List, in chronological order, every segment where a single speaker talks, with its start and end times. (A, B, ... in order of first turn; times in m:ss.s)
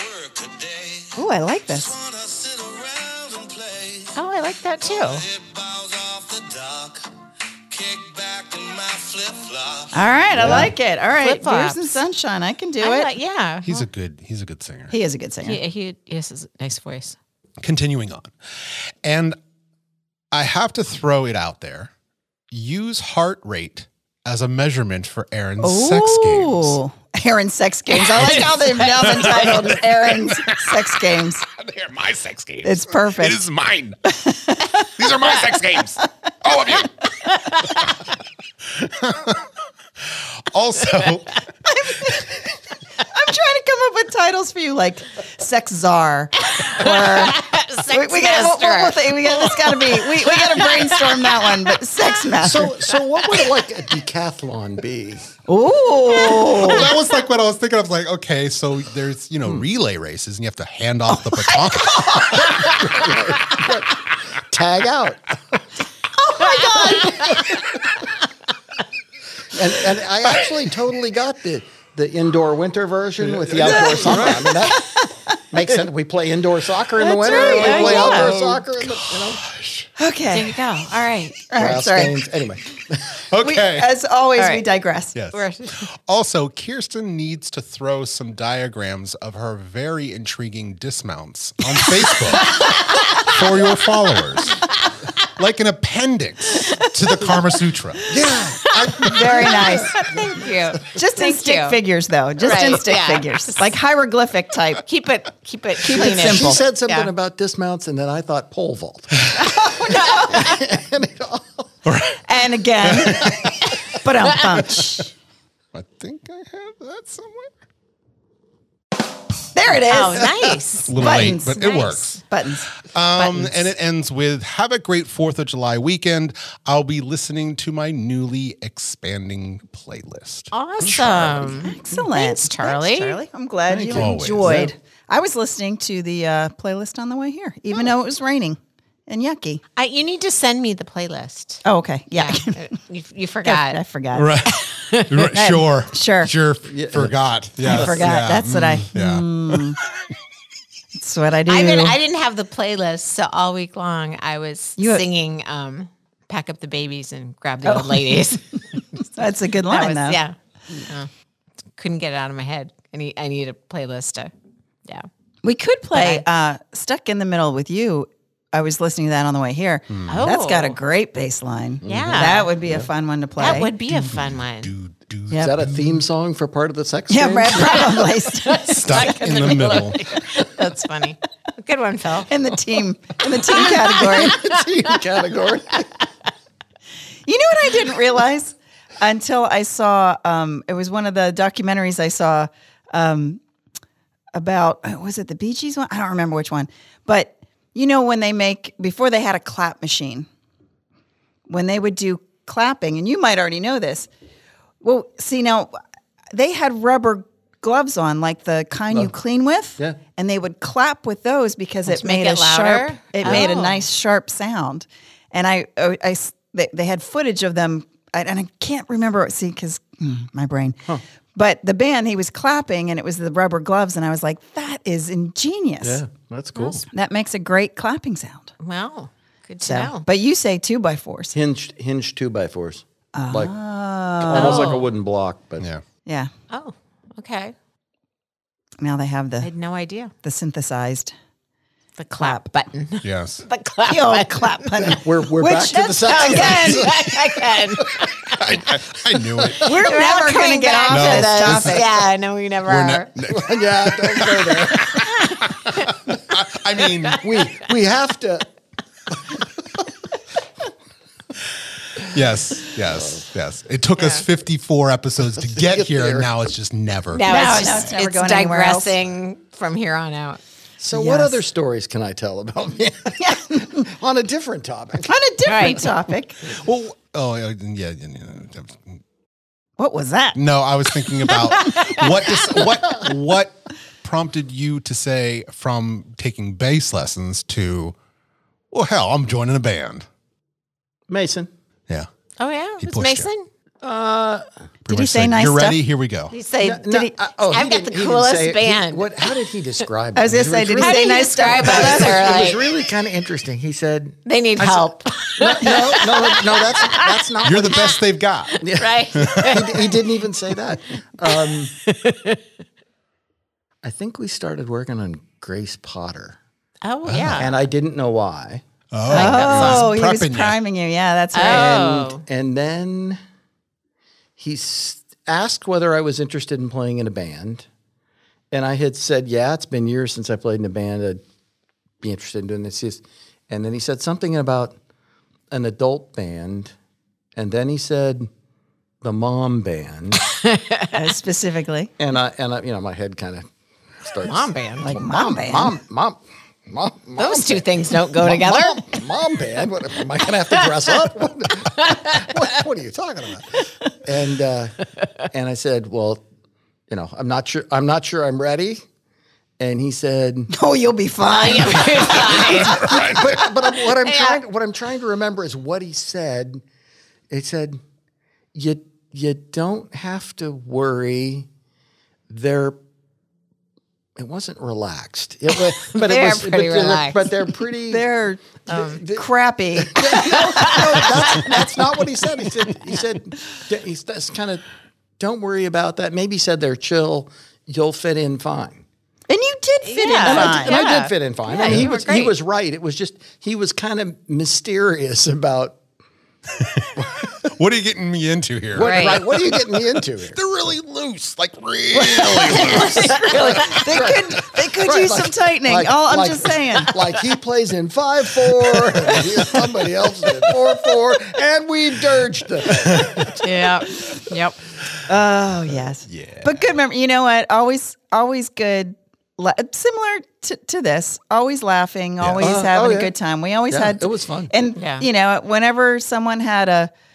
0:01.1-0:02.0 A
0:04.1-0:05.3 B
0:05.7-0:06.9 C
0:07.7-0:10.7 C
0:09.9-0:13.1 A
0:10.4-0:10.7 D
0:11.2-0:12.0 B
0:12.8-0:13.8 B
0:13.6-0:14.9 C
0:14.9-0:15.6 A
0:15.4-0:17.2 B
0:17.6-0:18.3 C
0:19.0-0:19.4 C
0:20.3-0:21.9 C
0:22.5-0:26.8 C
0:25.6-0:31.4 A
0:28.0-0:29.6 B
0:28.2-0:34.0 C
0:32.6-0:33.4 A
0:34.0-0:34.9 A
0:34.7-0:36.9 C
0:37.5-0:37.8 B
0:38.7-0:39.5 C
0:40.0-0:41.4 C
0:41.9-0:42.3 A
0:43.0-0:52.8 A
0:46.6-0:51.7 B
0:52.4-0:55.2 D
0:52.9-0:53.5 B
0:55.5-0:56.9 A
0:56.4-1:02.6 C
1:01.1-1:02.5 A
1:02.6-1:05.6 D
1:06.2-1:07.4 A
1:06.5-1:07.2 B
1:09.5-1:19.4 D
1:13.2-1:14.6 C
1:14.1-1:15.1 A
1:17.0-1:18.3 A
1:17.2-1:18.3 B
1:17.2-1:19.9 C
1:20.0-1:20.6 A
1:20.3-1:21.4 B
1:21.5-1:22.2 A
1:21.6-1:23.2 D
1:23.2-1:23.9 C
1:23.4-1:25.2 A
1:24.4-1:24.6 B
1:25.1-1:34.7 C
1:25.3-1:25.8 B
1:32.3-1:33.4 B
1:35.4-1:38.1 C
1:38.1-1:40.1 D
1:38.7-1:39.2 C
1:38.7-1:41.8 B
1:39.0-1:40.0 A
1:40.9-1:44.8 A
1:42.4-1:43.7 B
1:44.8-1:47.1 B
1:45.8-1:46.6 A
1:45.9-1:51.7 D
1:49.3-1:50.6 A
1:51.8-1:52.2 C
1:52.2-1:55.1 A
1:52.8-1:53.7 C
1:55.7-1:57.5 C
1:59.5-2:02.7 A
1:59.9-2:01.0 B
2:00.8-2:02.2 C
2:02.8-2:11.6 C
2:03.2-2:03.6 B
2:10.5-2:13.2 B
2:11.6-2:19.6 A
2:13.7-2:14.7 D
2:13.9-2:14.7 C
2:19.8-2:21.6 B
2:21.6-2:22.7 A
2:22.2-2:23.8 B
2:23.4-2:24.5 A
2:24.1-2:29.8 C
2:24.7-2:25.1 B
2:25.3-2:26.3 A
2:26.6-2:28.0 D
2:27.6-2:29.8 A
2:31.0-2:32.0 A
2:31.5-2:38.5 B
2:34.8-2:35.0 A
2:37.6-2:38.3 A
2:39.1-2:40.2 A
2:39.7-2:41.1 B
2:41.8-2:44.3 B
2:45.4-2:53.7 A
2:45.9-2:46.2 B
2:49.9-2:50.2 C
2:50.1-2:50.8 B
2:51.8-2:52.9 D
2:51.8-2:52.5 B
2:53.4-2:54.7 B
2:53.9-2:56.0 C
2:55.4-2:58.0 D
2:57.1-2:59.6 A
2:57.6-3:02.3 B
2:58.7-3:00.2 C
3:02.3-3:04.4 A
3:03.5-3:04.9 B
3:04.0-3:06.0 D
3:07.2-3:13.4 A
3:14.3-3:20.3 A
3:21.5-3:24.1 A
3:24.8-3:25.7 A
3:26.3-3:40.8 A
3:31.9-3:33.8 B
3:33.2-3:33.5 D
3:41.3-3:46.0 A
3:45.8-3:46.8 D
3:46.5-3:46.8 B
3:46.9-3:48.5 A
3:48.6-3:50.0 B
3:49.6-3:51.3 A
3:51.3-3:53.5 D
3:53.1-3:54.8 A
3:54.2-3:55.7 D
3:54.3-3:54.9 B
3:56.5-3:57.5 B
3:58.8-3:59.5 A
3:59.4-4:00.1 B
4:00.2-4:01.1 A
4:02.0-4:05.0 B
4:02.2-4:02.4 A
4:03.0-4:03.4 C
4:03.9-4:06.9 A
4:04.8-4:08.1 D
4:06.1-4:08.6 B
4:08.3-4:09.7 C
4:09.4-4:09.7 D
4:09.6-4:13.1 B
4:09.6-4:11.9 A
4:10.9-4:11.9 C
4:12.6-4:17.2 C
4:13.3-4:15.0 D
4:14.9-4:15.9 B
4:16.8-4:17.6 B
4:17.2-4:18.5 D
4:21.9-4:27.4 C
4:22.8-4:23.2 D
4:24.0-4:24.2 B
4:25.4-4:26.3 D
4:27.1-4:30.4 B
4:27.3-4:28.9 A
4:30.8-4:35.1 D
4:30.9-4:31.4 A
4:35.0-4:36.4 A
4:35.4-4:36.0 B
4:36.4-4:39.0 C
4:39.8-4:40.4 A
4:40.3-4:48.0 C
4:41.7-4:42.2 B
4:48.7-4:50.0 C
4:51.1-4:51.5 D
4:52.4-4:53.5 B
4:52.8-4:53.3 C
4:53.8-4:54.4 D
4:54.8-4:56.3 C
4:54.9-4:55.8 A
4:56.3-4:59.3 B
4:56.6-5:08.0 D
4:56.8-4:57.1 A
5:00.1-5:02.4 A
5:00.8-5:02.7 B
5:04.2-5:10.5 B
5:07.4-5:08.6 C
5:08.6-5:11.7 D
5:09.1-5:09.6 C
5:11.3-5:12.4 B
5:13.8-5:16.4 D
5:16.8-5:17.6 B
5:17.0-5:17.5 C
5:17.4-5:18.6 D
5:18.9-5:20.6 C
5:19.1-5:19.9 B
5:19.1-5:21.8 A
5:21.3-5:22.2 B
5:21.4-5:23.2 D
5:24.4-5:27.6 D
5:28.5-5:31.2 D
5:32.0-5:34.8 D
5:35.5-5:36.7 D
5:37.4-5:38.3 D
5:39.0-5:40.2 D
5:40.3-5:41.0 B
5:40.9-5:41.9 A
5:42.0-5:43.5 D
5:44.0-5:56.2 D
5:44.2-5:44.9 B
5:44.8-5:45.8 A
5:47.2-5:49.0 B
5:56.9-5:58.8 D
5:59.6-6:00.5 D
6:00.5-6:02.8 A
6:01.4-6:04.4 B
6:02.3-6:06.6 D
6:02.5-6:03.4 C
6:07.3-6:07.8 D
6:08.5-6:11.5 D
6:12.3-6:12.8 D
6:14.2-6:18.0 D
6:15.6-6:17.5 B
6:17.9-6:21.0 A
6:18.7-6:24.6 D
6:18.7-6:19.0 B
6:20.3-6:21.5 B
6:25.2-6:28.8 D
6:29.3-6:30.8 A
6:29.8-6:32.3 B
6:30.2-6:35.8 D
6:36.6-6:43.2 C
6:37.0-6:37.5 D
6:38.7-6:40.4 D
6:38.8-6:39.2 B
6:41.9-6:54.1 D
6:42.3-6:46.9 A
6:52.9-6:53.3 C
6:53.4-6:54.6 B
6:55.0-7:06.9 A
6:56.1-6:56.6 C
7:02.2-7:02.5 C
7:02.4-7:03.1 D
7:03.7-7:04.5 D
7:04.8-7:05.0 B